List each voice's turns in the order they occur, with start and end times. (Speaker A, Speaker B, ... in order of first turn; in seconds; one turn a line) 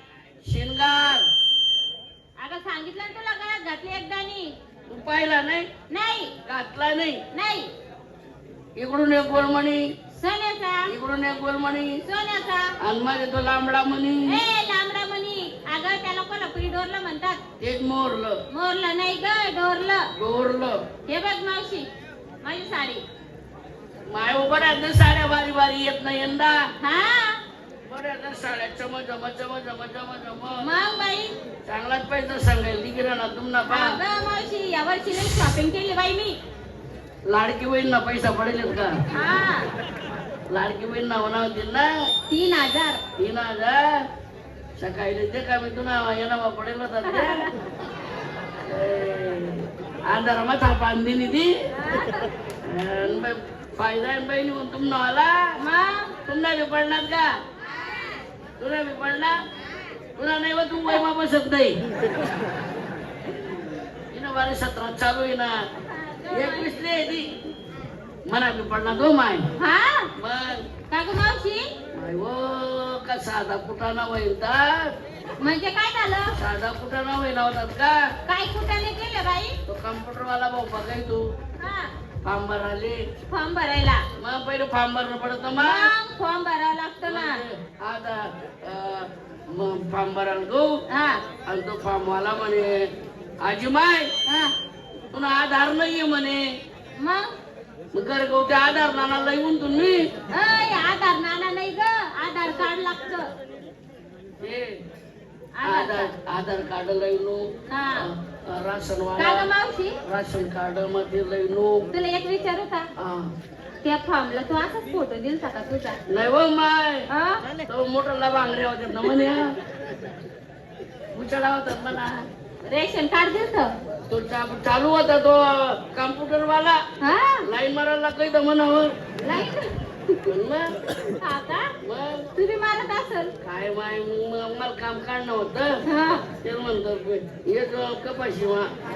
Speaker A: 0.4-1.3
Speaker B: 2.4-4.5
Speaker A: 4.9-5.7
Speaker B: 5.9-6.3
Speaker A: 6.5-7.2
Speaker B: 7.3-7.7
Speaker A: 8.8-9.8
Speaker B: 10.2-10.9
Speaker A: 10.9-12.0
Speaker B: 12.1-12.8
Speaker A: 12.8-14.4
Speaker B: 14.3-17.4
Speaker A: 17.6-18.4
Speaker B: 18.5-20.1
Speaker A: 20.2-20.8
Speaker B: 21.1-21.9
Speaker B: 22.4-23.0
Speaker A: 24.1-26.6
Speaker B: 26.8-27.4
Speaker A: 27.9-30.6
Speaker B: 30.6-31.3
Speaker A: 31.7-34.0
Speaker B: 33.7-36.4
Speaker A: 37.3-38.9
Speaker B: 39.1-39.7
Speaker A: 40.5-41.9
Speaker B: 42.3-43.0
Speaker A: 43.2-43.8
Speaker A: 44.8-47.5
Speaker B: 47.0-47.5
Speaker A: 48.7-51.5
Speaker B: 51.7-52.3
Speaker A: 52.6-55.5
Speaker B: 55.6-56.1
Speaker A: 56.3-57.3
Speaker A: 58.6-59.4
Speaker A: 60.2-61.8
Speaker A: 64.1-65.6
Speaker B: 65.8-66.8
Speaker A: 66.3-67.3
Speaker A: 68.3-69.5
Speaker B: 69.6-70.1
Speaker A: 70.2-70.7
Speaker B: 70.9-71.7
Speaker A: 71.9-74.8
Speaker B: 75.4-76.3
Speaker A: 76.3-78.0
Speaker B: 78.3-79.6
Speaker A: 79.7-81.2
Speaker B: 81.6-81.9
Speaker A: 82.2-83.0
Speaker B: 83.3-84.0
Speaker A: 84.2-85.9
Speaker B: 85.6-87.4
Speaker A: 87.1-90.7
Speaker B: 90.9-91.2
Speaker A: 91.5-92.8
Speaker A: 93.4-94.1
Speaker B: 94.3-94.5
Speaker A: 95.1-96.4
Speaker B: 97.0-97.3
Speaker A: 97.9-100.0
Speaker B: 100.3-103.3
Speaker A: 104.4-104.8
Speaker B: 105.5-106.1
Speaker A: 105.6-107.5
Speaker B: 107.7-108.1
Speaker A: 108.0-109.5
Speaker B: 109.2-110.0
Speaker A: 110.0-111.9
Speaker B: 111.9-112.9
Speaker A: 113.0-113.3
Speaker B: 113.8-116.0
Speaker A: 116.1-117.1
Speaker B: 117.1-117.4
Speaker A: 117.7-119.5
Speaker A: 121.1-122.2
Speaker B: 122.6-123.7
Speaker A: 124.1-126.8
Speaker B: 127.0-127.5
Speaker A: 127.5-128.9
Speaker B: 129.2-130.2
Speaker A: 130.3-130.7
Speaker B: 131.2-131.7
Speaker A: 131.8-132.3
Speaker B: 132.4-133.3
Speaker A: 133.4-135.8
Speaker B: 135.9-136.2
Speaker A: 136.3-138.7